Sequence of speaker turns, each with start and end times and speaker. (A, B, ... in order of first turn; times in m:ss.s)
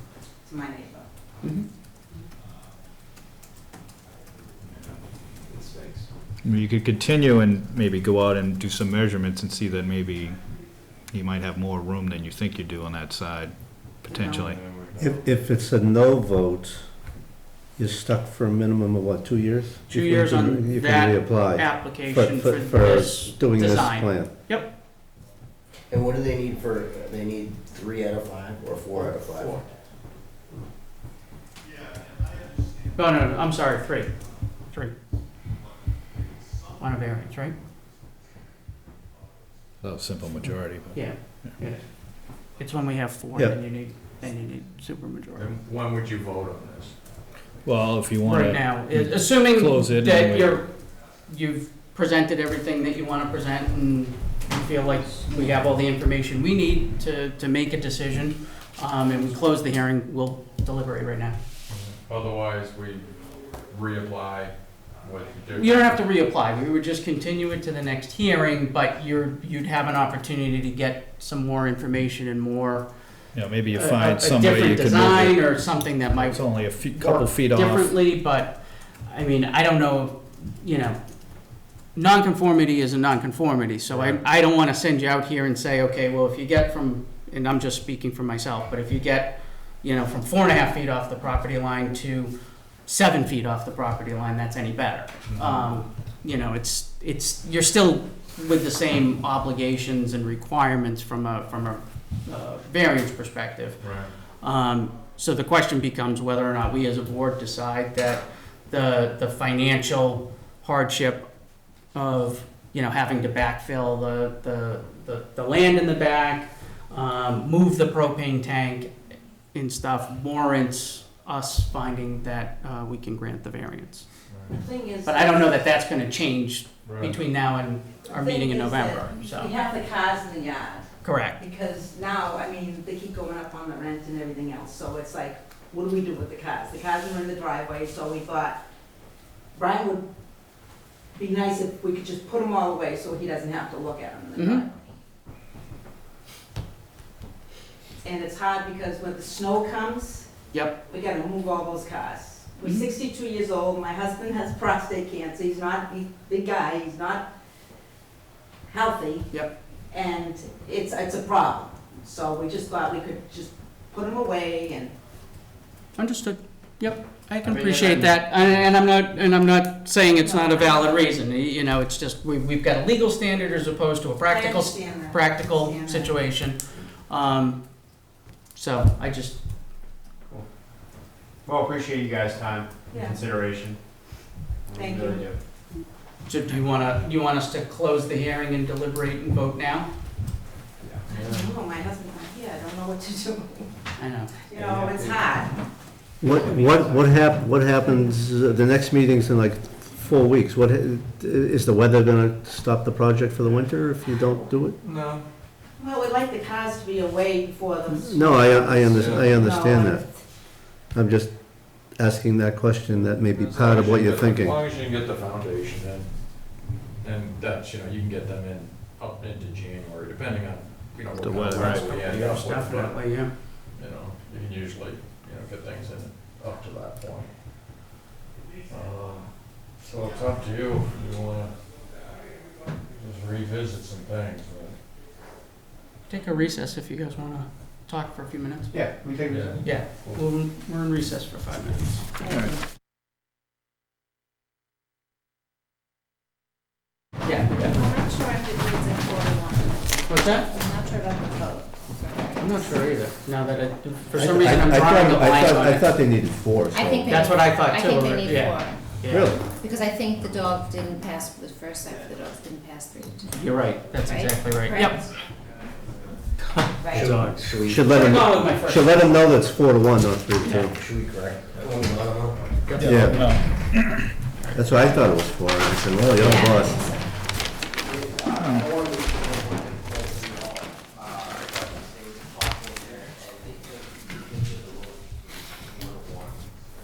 0:00.4-0:01.1 A
0:06.4-0:10.5 B
0:11.0-0:14.6 B
0:14.2-0:15.2 C
0:15.0-0:16.9 D
0:17.8-0:24.3 D
0:19.9-0:24.7 E
0:25.9-0:29.7 F
0:32.9-0:34.1 E
0:34.7-0:34.9 E
0:36.8-0:37.6 E
0:39.8-0:41.5 B
0:40.9-0:45.5 E
0:45.4-0:47.0 C
0:47.6-0:50.7 B
0:48.2-1:01.4 E
1:01.7-1:06.0 C
1:05.5-1:12.9 E
1:13.3-1:17.9 B
1:13.7-1:21.0 E
1:21.5-1:51.3 E
1:35.3-1:35.6 C
1:43.8-1:44.1 C
1:51.9-1:58.9 E
1:59.5-2:04.1 E
2:04.3-2:04.6 C
2:04.5-2:05.6 A
2:05.0-2:09.5 E
2:06.8-2:07.2 C
2:08.0-2:18.6 A
2:11.0-2:11.4 E
2:19.5-2:20.0 A
2:21.1-2:24.7 A
2:24.4-2:24.6 E
2:28.0-2:30.3 A
2:30.8-2:37.3 A
2:32.6-2:32.9 E
2:38.7-2:39.4 A
2:39.9-2:44.9 A
2:46.0-2:57.8 E
2:47.5-2:48.1 G
2:50.2-2:51.0 A
2:54.3-2:56.2 A
2:58.5-2:59.4 E
3:01.4-3:03.8 G
3:02.9-3:03.2 A
3:04.6-3:05.4 G
3:04.7-3:05.3 A
3:06.3-3:09.9 E
3:11.1-3:13.8 A
3:11.1-3:11.5 C
3:14.0-3:14.3 E
3:14.5-3:15.5 A
3:14.6-3:15.1 C
3:16.2-3:24.8 D
3:24.8-3:25.2 C
3:25.8-3:30.2 A
3:27.9-3:30.1 D
3:28.9-3:29.4 C
3:30.9-3:31.3 D
3:31.9-3:34.6 D
3:33.3-3:47.3 C
3:41.2-3:42.0 B
3:41.6-3:43.3 E
3:41.6-3:42.4 F
3:48.7-3:51.5 C
3:52.8-3:54.8 C
3:56.1-3:58.9 E
3:58.7-4:00.2 G
3:59.3-4:00.0 C
3:59.6-4:02.1 E
4:02.3-4:02.6 B
4:07.2-4:07.8 E
4:07.6-4:13.0 H
4:10.1-4:10.5 E
4:12.4-4:15.9 E
4:14.1-4:17.4 D
4:16.7-4:18.8 H
4:17.1-4:19.4 E
4:19.1-4:19.5 D
4:19.5-4:23.4 H
4:23.3-4:25.1 E
4:24.0-4:25.1 H
4:26.4-4:29.4 E
4:26.8-4:27.1 H
4:26.9-4:28.6 F
4:27.6-4:30.8 D
4:30.4-4:33.1 F
4:31.5-4:32.6 C
4:32.6-4:33.5 E
4:32.8-4:33.2 D
4:33.0-4:34.1 B
4:34.5-4:36.9 D
4:36.2-4:37.1 H
4:37.8-4:46.4 F
4:38.3-4:38.7 B